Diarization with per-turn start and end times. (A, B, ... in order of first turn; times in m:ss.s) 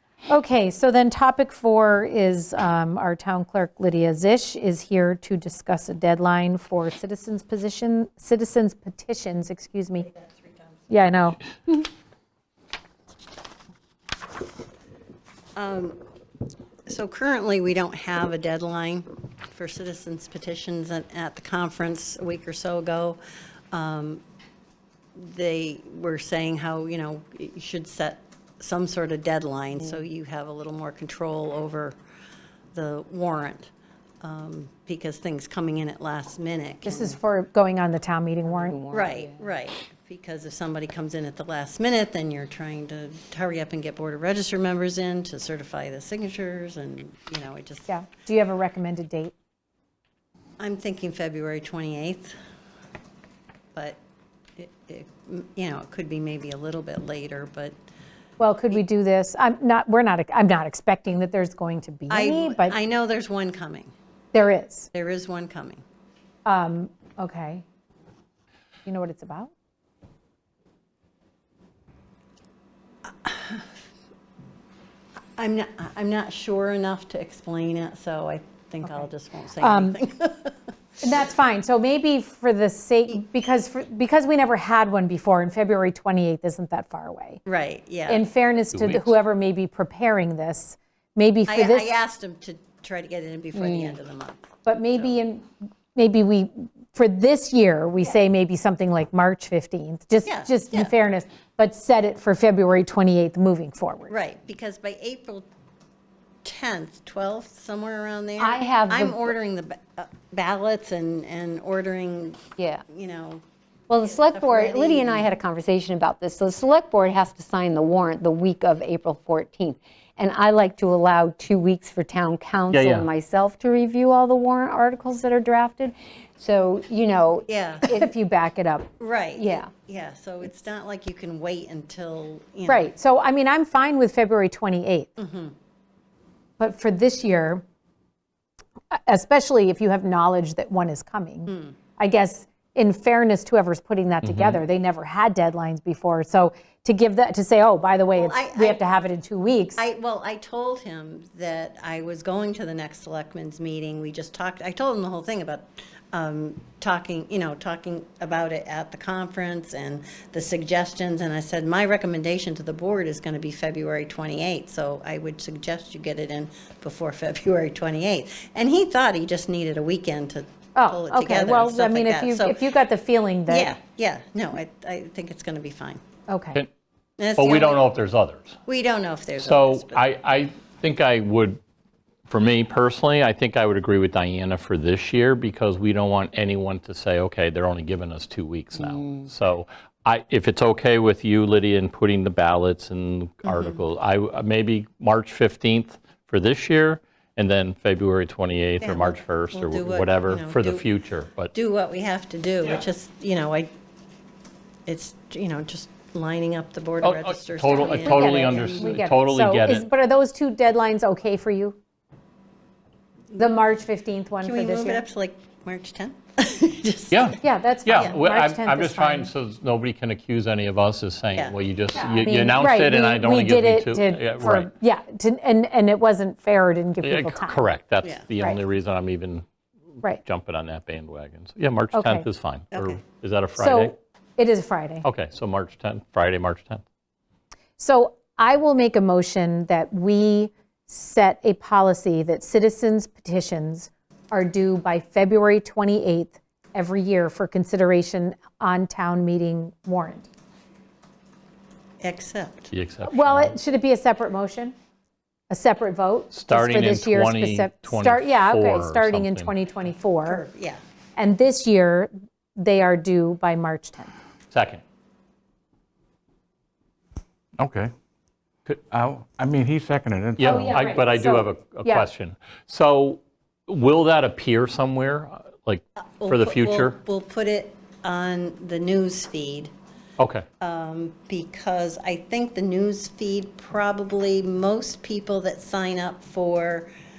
0:00.3-0:10.1 A
0:10.1-0:10.6 B
0:10.9-0:11.4 A
0:15.6-0:16.0 B
0:16.9-0:23.2 B
0:23.7-0:24.2 B
0:25.2-0:32.0 B
0:32.7-0:33.7 B
0:34.2-0:37.2 B
0:36.8-0:38.8 A
0:38.5-0:39.4 C
0:38.9-0:47.9 B
0:47.9-0:49.3 A
0:50.6-0:52.3 B
0:54.6-0:57.8 B
0:58.4-1:02.8 A
1:02.1-1:03.9 B
1:04.3-1:04.9 A
1:04.9-1:05.8 B
1:06.4-1:07.6 A
1:08.8-1:09.5 A
1:13.2-1:13.6 B
1:15.4-1:20.6 B
1:19.6-1:20.0 A
1:21.0-1:27.4 A
1:27.4-1:28.3 B
1:28.1-1:31.9 A
1:28.7-1:29.1 D
1:31.5-1:35.2 B
1:33.6-1:34.0 C
1:34.6-1:44.1 A
1:40.2-1:40.9 B
1:44.1-1:45.5 B
1:46.4-1:53.4 B
1:48.4-1:49.3 C
1:52.6-1:52.8 C
1:53.9-2:08.1 C
1:54.0-1:55.3 B
2:02.7-2:03.1 D
2:07.5-2:07.9 B
2:07.9-2:08.9 A
2:09.0-2:12.9 B
2:09.4-2:09.7 C
2:12.7-2:15.1 A
2:15.2-2:15.5 B
2:16.6-2:17.6 A
2:18.9-2:29.8 A
2:21.5-2:21.7 B
2:24.2-2:24.6 D
2:28.1-2:28.8 B
2:29.8-2:52.7 B
2:50.8-2:53.7 A
2:53.5-2:56.0 B
2:56.3-2:56.6 A
2:57.2-2:57.8 B
2:57.4-2:58.6 D
2:58.7-3:00.1 B
2:59.4-3:01.6 D
3:02.3-3:21.5 D
3:13.4-3:13.8 B
3:18.8-3:20.9 B
3:21.5-3:23.7 B
3:24.9-3:29.0 B
3:27.0-3:29.9 D
3:27.8-3:31.8 A
3:33.3-3:35.0 A
3:34.4-3:37.4 B
3:37.1-3:44.7 D
3:37.4-3:39.3 A
3:42.1-3:47.7 A
3:47.0-3:49.4 D
3:50.2-3:53.9 D
3:51.9-3:52.3 A
3:52.7-3:53.0 B
3:53.6-3:55.1 A
3:55.0-3:56.8 D
3:57.8-4:10.3 A
4:12.0-4:12.7 B
4:12.7-4:13.5 D
4:13.0-4:14.8 A
4:15.5-4:20.4 A
4:16.3-4:19.6 D
4:20.3-4:20.8 B
4:21.2-4:24.1 A
4:24.5-4:24.8 D
4:27.6-4:27.9 E
4:28.7-4:31.0 E
4:30.4-4:37.0 D
4:30.4-4:32.1 A
4:36.2-4:39.7 B
4:40.2-4:40.4 D
4:40.6-4:46.9 B